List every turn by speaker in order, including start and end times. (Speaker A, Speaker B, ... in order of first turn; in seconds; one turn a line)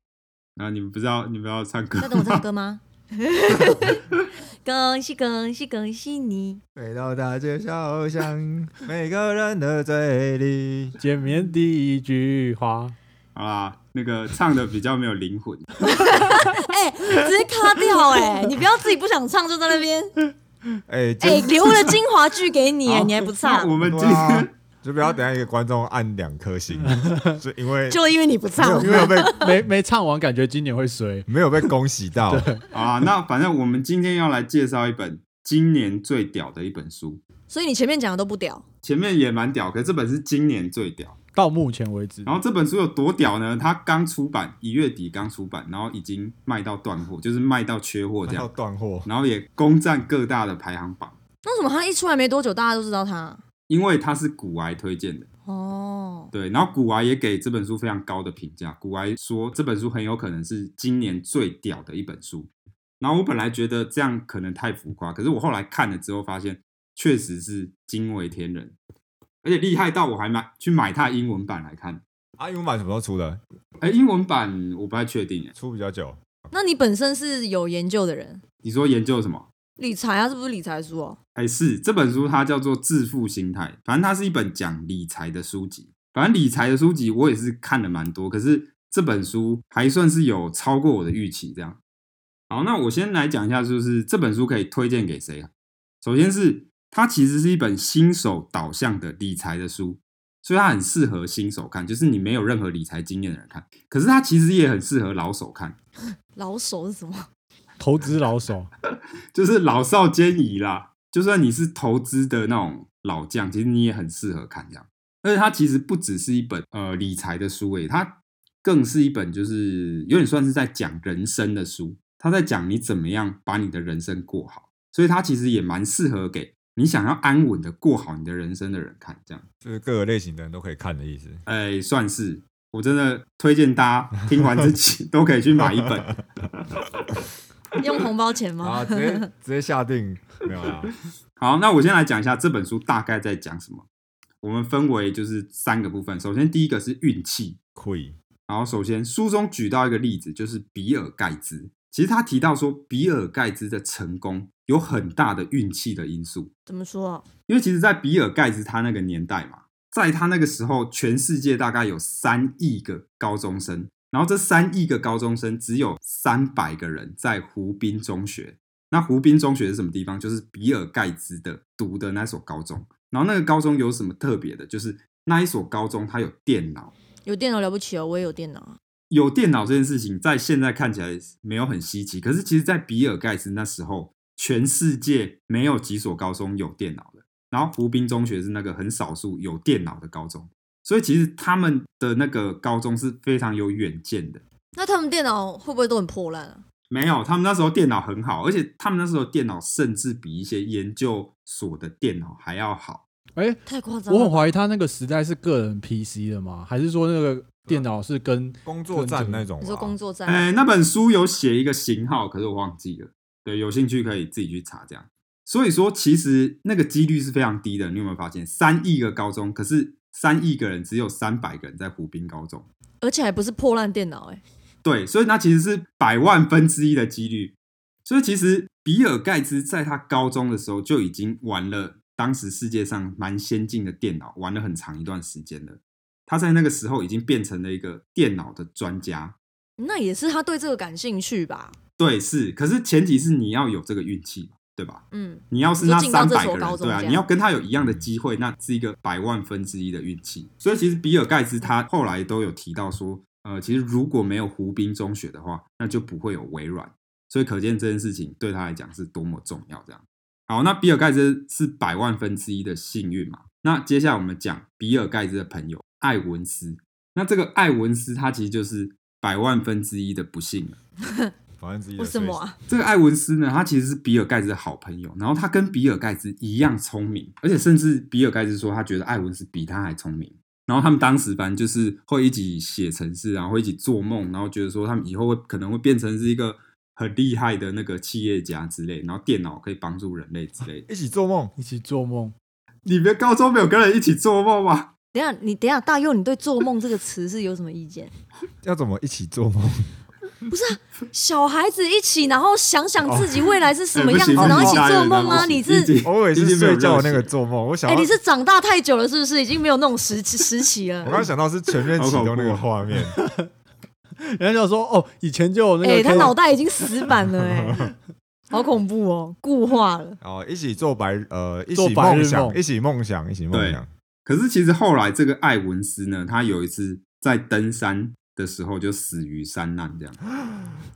Speaker A: 0.6-2.5
Speaker B: 2.0-4.1
Speaker B: 4.6-6.6
Speaker C: 6.8-11.0
Speaker D: 11.0-12.9
Speaker A: 13.4-15.7
Speaker B: 15.8-20.1
Speaker C: 20.9-21.9
Speaker B: 21.2-23.8
Speaker A: 22.9-24.5
Speaker C: 23.8-28.0
Speaker D: 26.9-27.4
Speaker B: 27.9-29.5
Speaker C: 28.6-29.4
Speaker D: 28.8-31.3
Speaker C: 31.3-32.5
Speaker D: 32.3-32.7
Speaker A: 32.7-37.2
Speaker B: 37.5-38.6
Speaker A: 38.8-41.2
Speaker D: 41.3-42.4
Speaker A: 42.2-48.5
Speaker C: 48.2-49.1
Speaker A: 49.0-51.2
Speaker B: 51.5-53.4
Speaker A: 53.7-55.3
Speaker B: 55.5-56.3
Speaker A: 56.3-68.8
Speaker A: 69.4-72.0
Speaker C: 72.4-73.4
Speaker A: 73.8-75.5
Speaker C: 75.6-76.2
Speaker B: 76.5-78.4
Speaker A: 78.6-79.5
Speaker B: 79.8-81.2
Speaker A: 81.3-91.8
Speaker A: 92.5-95.5
Speaker A: 96.0-105.8
Speaker B: 106.3-107.3
Speaker D: 107.8-108.7
Speaker A: 109.3-129.4
Speaker C: 129.6-131.4
Speaker A: 131.5-136.8
Speaker B: 137.8-139.3
Speaker C: 138.6-140.9
Speaker A: 141.4-143.8
Speaker A: 144.4-147.6
Speaker C: 147.8-148.2
Speaker A: 148.5-156.5
Speaker B: 156.7-157.3
Speaker A: 157.5-176.9
Speaker B: 177.2-178.8
Speaker A: 179.1-194.4
Speaker B: 194.7-196.6
Speaker A: 196.9-203.0
Speaker D: 203.4-209.5
Speaker B: 203.7-204.5
Speaker C: 208.7-210.0
Speaker B: 209.6-210.5
Speaker A: 210.3-222.7
Speaker B: 223.0-224.4
Speaker A: 224.8-239.4
Speaker B: 239.8-241.8
Speaker A: 242.0-270.8
Speaker B: 245.1-247.2
Speaker B: 271.1-271.3
Speaker C: 271.6-272.4
Speaker B: 272.0-272.6
Speaker A: 272.7-290.9
Speaker C: 290.9-291.5
Speaker D: 291.6-292.3
Speaker A: 292.9-294.9
Speaker B: 295.1-298.1
Speaker C: 298.6-299.9
Speaker B: 300.5-306.0
Speaker C: 303.0-303.5
Speaker A: 303.9-307.3
Speaker C: 304.3-308.1
Speaker B: 307.9-311.3
Speaker C: 311.0-313.2
Speaker A: 312.0-312.7
Speaker D: 312.9-313.5
Speaker D: 314.2-316.4
Speaker B: 315.8-317.9
Speaker C: 317.4-317.9
Speaker B: 318.5-320.2
Speaker C: 320.2-323.9
Speaker D: 321.7-322.6
Speaker A: 323.5-330.2